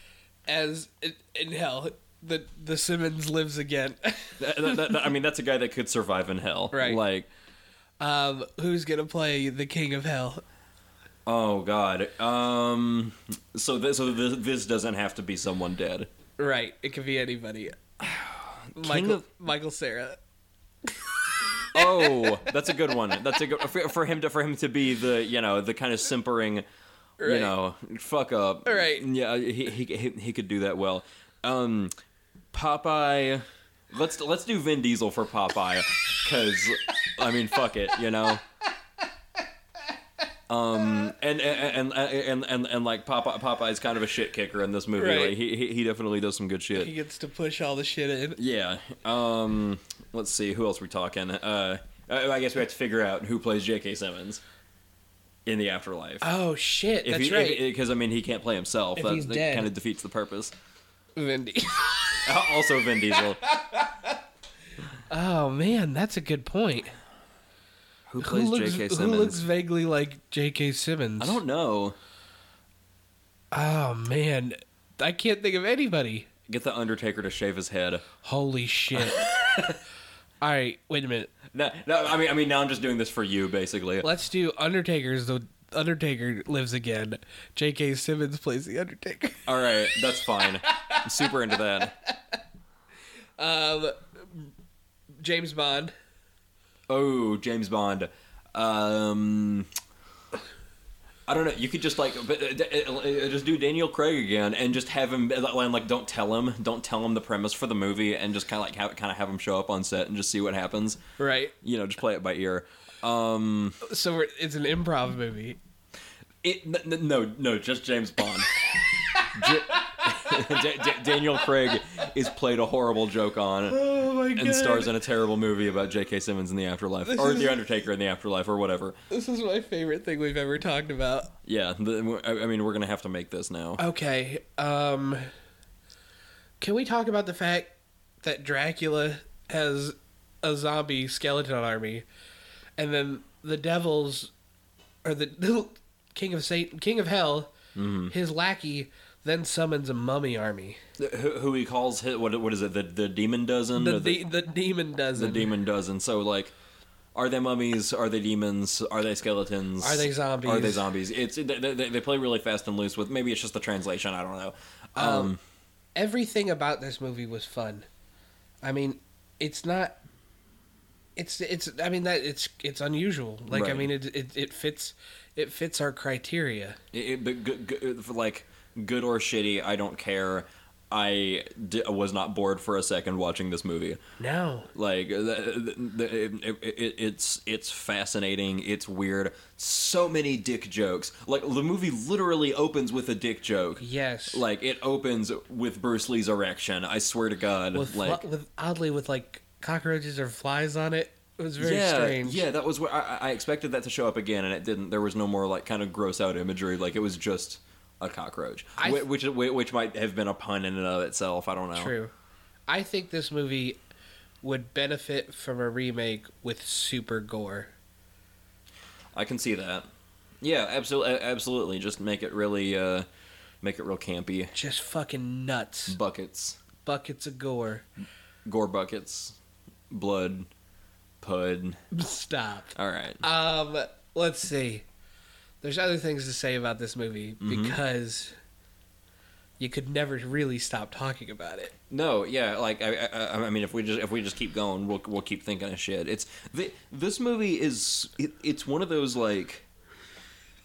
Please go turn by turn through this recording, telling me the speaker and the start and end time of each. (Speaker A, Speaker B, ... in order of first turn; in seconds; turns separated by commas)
Speaker A: 0.5-5.0, Speaker B: 4.4-7.3, Speaker A: 6.7-7.0, Speaker A: 8.0-10.4, Speaker B: 11.2-16.1, Speaker A: 16.4-17.8, Speaker B: 18.0-19.2, Speaker A: 18.8-20.2, Speaker A: 21.6-22.9, Speaker B: 21.7-26.6, Speaker A: 27.2-27.5, Speaker B: 27.2-31.9, Speaker A: 28.6-29.1, Speaker B: 32.5-38.4, Speaker B: 40.5-46.9, Speaker A: 45.0-45.4, Speaker A: 46.7-48.4, Speaker B: 48.4-54.4, Speaker B: 55.5-56.3, Speaker A: 56.2-57.6, Speaker B: 57.0-60.5, Speaker A: 59.0-59.7, Speaker A: 61.1-62.2, Speaker B: 62.2-63.4, Speaker A: 63.4-64.2, Speaker A: 65.1-66.9, Speaker B: 68.1-69.4, Speaker A: 68.2-71.4, Speaker B: 71.2-72.0, Speaker A: 73.5-76.3, Speaker B: 76.5-78.0, Speaker A: 78.2-79.3, Speaker B: 78.9-79.8, Speaker A: 80.4-81.3, Speaker B: 81.5-84.1, Speaker A: 84.0-91.5, Speaker B: 89.5-91.9, Speaker A: 93.4-94.5, Speaker A: 95.2-95.9, Speaker B: 96.9-99.7, Speaker B: 101.3-111.0, Speaker A: 111.2-111.5, Speaker B: 111.6-113.8, Speaker A: 113.8-115.6, Speaker B: 116.4-118.5, Speaker A: 119.1-121.5, Speaker B: 119.3-123.8, Speaker A: 123.7-125.0, Speaker B: 124.3-128.9, Speaker A: 127.1-127.6, Speaker A: 129.1-131.3, Speaker B: 131.4-133.8, Speaker A: 133.8-135.3, Speaker A: 136.6-142.0, Speaker A: 142.8-144.3, Speaker A: 145.0-147.5, Speaker B: 147.7-148.1, Speaker A: 148.1-150.8, Speaker B: 151.0-154.2, Speaker A: 153.7-155.5, Speaker B: 155.1-156.5, Speaker B: 157.1-165.4, Speaker A: 159.8-160.8, Speaker A: 165.0-165.3, Speaker A: 165.9-167.9, Speaker A: 168.6-170.0, Speaker A: 171.2-176.8, Speaker B: 173.5-173.9, Speaker B: 176.9-184.0, Speaker A: 184.2-184.7, Speaker B: 184.7-198.2, Speaker A: 193.8-194.4, Speaker A: 197.7-202.4, Speaker B: 201.6-211.9, Speaker A: 208.8-209.1, Speaker A: 211.7-212.1, Speaker A: 212.7-213.8, Speaker A: 214.4-217.7, Speaker B: 219.1-219.9, Speaker B: 220.4-223.1, Speaker B: 223.6-224.5, Speaker A: 224.5-226.0, Speaker B: 225.9-226.6, Speaker A: 226.8-227.9, Speaker B: 228.4-229.4, Speaker B: 229.9-230.5, Speaker B: 231.2-231.8, Speaker A: 231.9-234.8, Speaker B: 232.7-233.2, Speaker A: 235.6-238.3, Speaker B: 237.4-237.8, Speaker A: 239.6-241.7, Speaker B: 241.9-249.7